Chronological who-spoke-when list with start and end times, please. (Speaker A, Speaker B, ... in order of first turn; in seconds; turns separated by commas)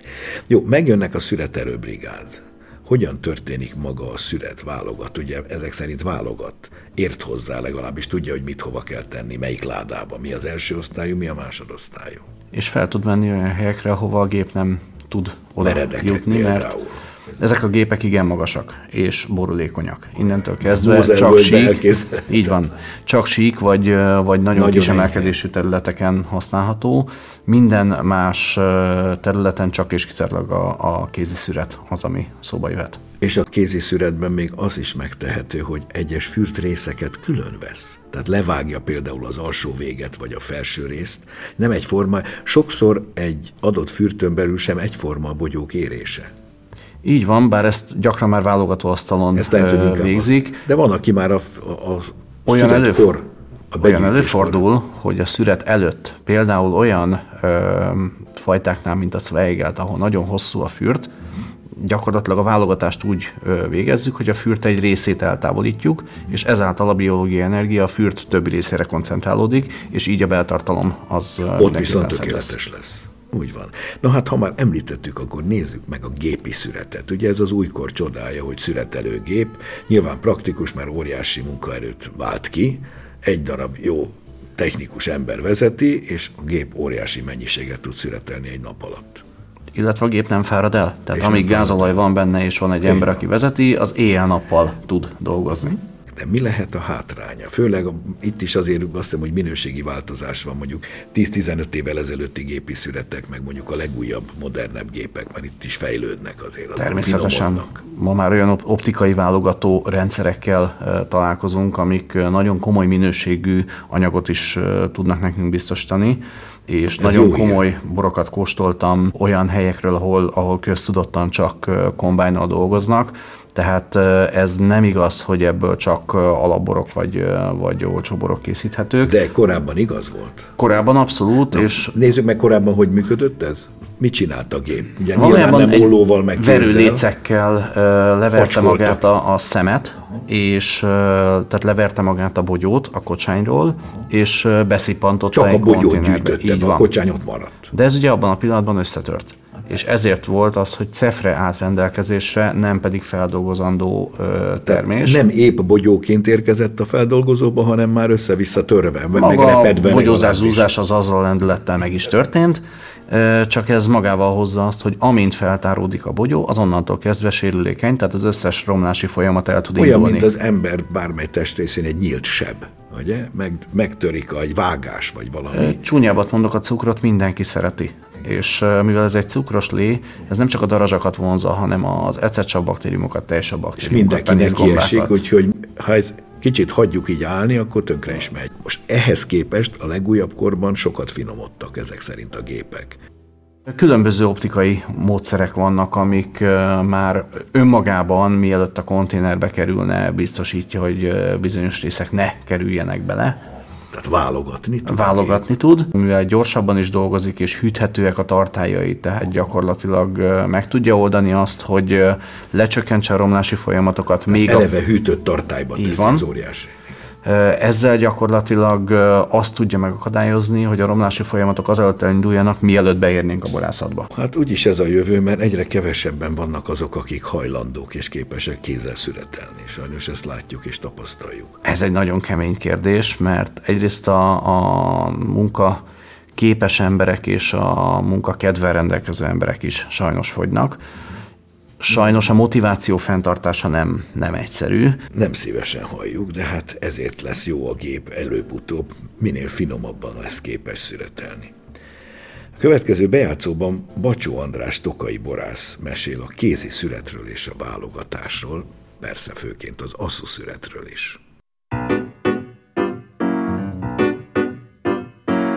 Speaker A: 0.5-12.2, Speaker B: 12.5-16.8, Speaker A: 15.6-17.0, Speaker B: 17.4-33.0, Speaker A: 20.6-22.6, Speaker A: 24.5-25.4, Speaker A: 33.2-46.3, Speaker B: 47.0-50.6, Speaker A: 49.4-54.6, Speaker B: 52.5-53.1, Speaker B: 53.8-61.1, Speaker B: 61.8-72.5, Speaker A: 71.6-89.2, Speaker B: 89.7-95.8, Speaker A: 91.1-92.0, Speaker A: 92.8-93.2, Speaker A: 96.1-107.8, Speaker B: 106.8-129.2, Speaker A: 117.0-117.6, Speaker A: 129.0-130.5, Speaker B: 130.6-131.9, Speaker A: 131.5-137.1, Speaker B: 135.1-146.9, Speaker A: 138.3-139.0, Speaker A: 145.3-147.7, Speaker B: 147.7-155.2, Speaker A: 154.7-160.7, Speaker B: 159.1-170.3, Speaker A: 169.8-175.8, Speaker B: 175.5-185.2, Speaker A: 183.8-193.0, Speaker B: 193.7-203.4, Speaker A: 203.9-205.4, Speaker B: 204.9-214.7, Speaker A: 214.3-216.8, Speaker B: 215.8-216.2, Speaker B: 217.2-224.1, Speaker A: 224.1-231.6, Speaker B: 231.6-235.8, Speaker B: 236.4-240.8, Speaker B: 241.8-245.0, Speaker A: 245.1-251.6, Speaker A: 252.6-261.2